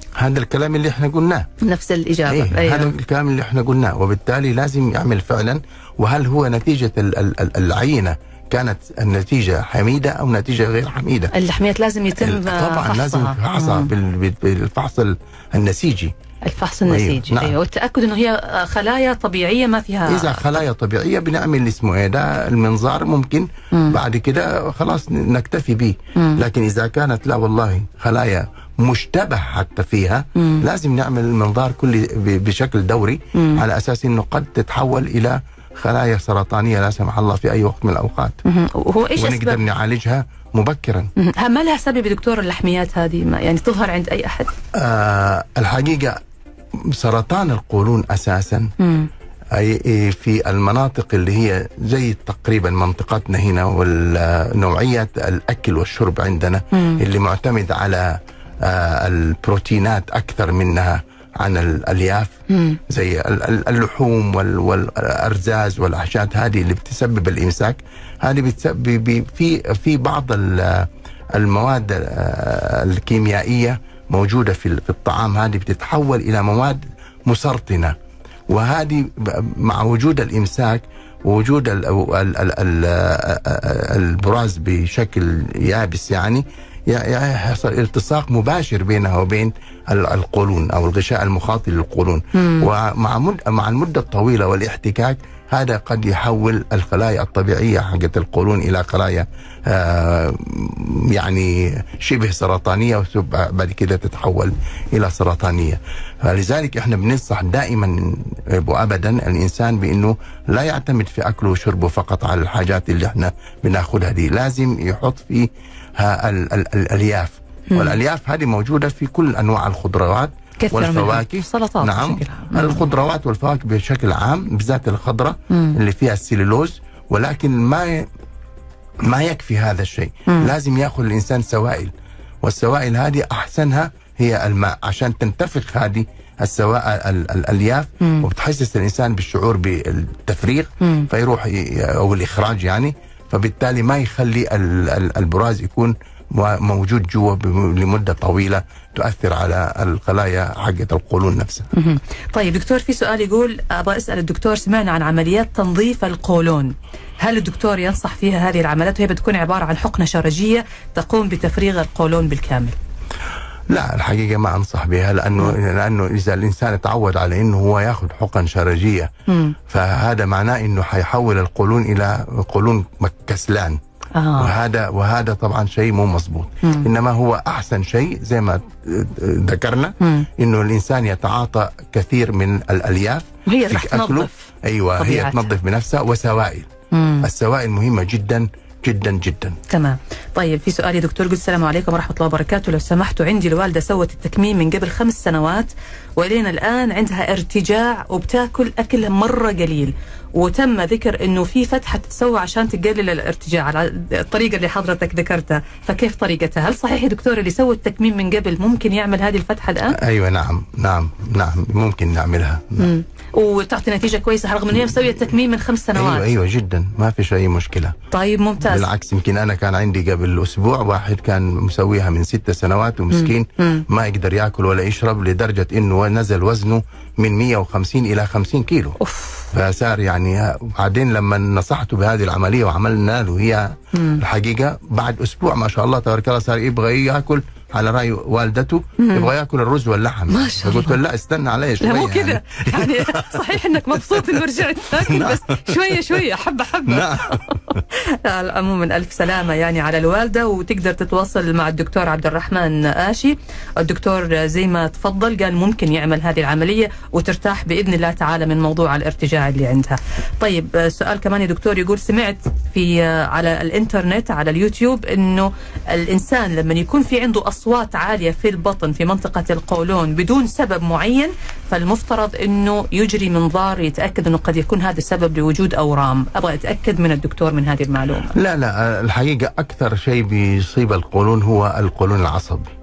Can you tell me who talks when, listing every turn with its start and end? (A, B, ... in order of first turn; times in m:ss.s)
0:00.2-0:01.5 A
0:01.6-0:02.9 B
0:02.3-0:11.3 A
0:11.3-0:13.9 B
0:12.2-0:16.1 A
0:16.4-0:20.5 B
0:16.9-0:17.5 A
0:20.0-0:38.4 A
0:26.2-0:26.4 B
0:30.4-0:30.6 B
0:33.3-0:33.6 B
0:38.4-0:39.6 B
0:39.2-0:41.1 A
0:41.2-0:44.5 B
0:44.7-0:46.2 A
0:46.9-0:48.7 A
0:48.8-0:49.1 B
0:49.5-1:02.3 A
0:56.7-0:57.0 B
1:02.5-1:02.8 B
1:02.9-1:17.9 A
1:18.5-2:08.1 A
1:32.4-1:32.7 B
1:57.7-1:58.0 B
2:00.6-2:02.8 B
2:05.5-2:05.8 B
2:09.0-2:11.9 A
2:12.4-2:31.7 A
2:18.0-2:18.3 B
2:20.8-2:21.1 B
2:31.7-2:42.7 B
2:43.7-2:49.1 A
2:49.3-2:49.5 B
2:49.7-2:53.8 A
2:54.1-2:54.5 B
2:54.4-3:06.7 A
3:00.0-3:00.3 B
3:03.4-3:05.5 B
3:06.9-3:07.3 B
3:07.2-3:09.6 A
3:09.7-3:30.0 B
3:29.9-3:32.9 A
3:32.8-3:36.2 B
3:35.9-3:38.0 A
3:38.1-3:38.8 B
3:38.6-3:49.0 A
3:43.1-3:43.8 B
3:49.0-3:49.5 B
3:49.5-4:06.2 A
3:53.9-3:54.2 B
3:59.0-3:59.3 B
4:00.3-4:01.0 B
4:01.8-4:38.3 B
4:06.8-4:07.8 A
4:38.3-4:42.7 A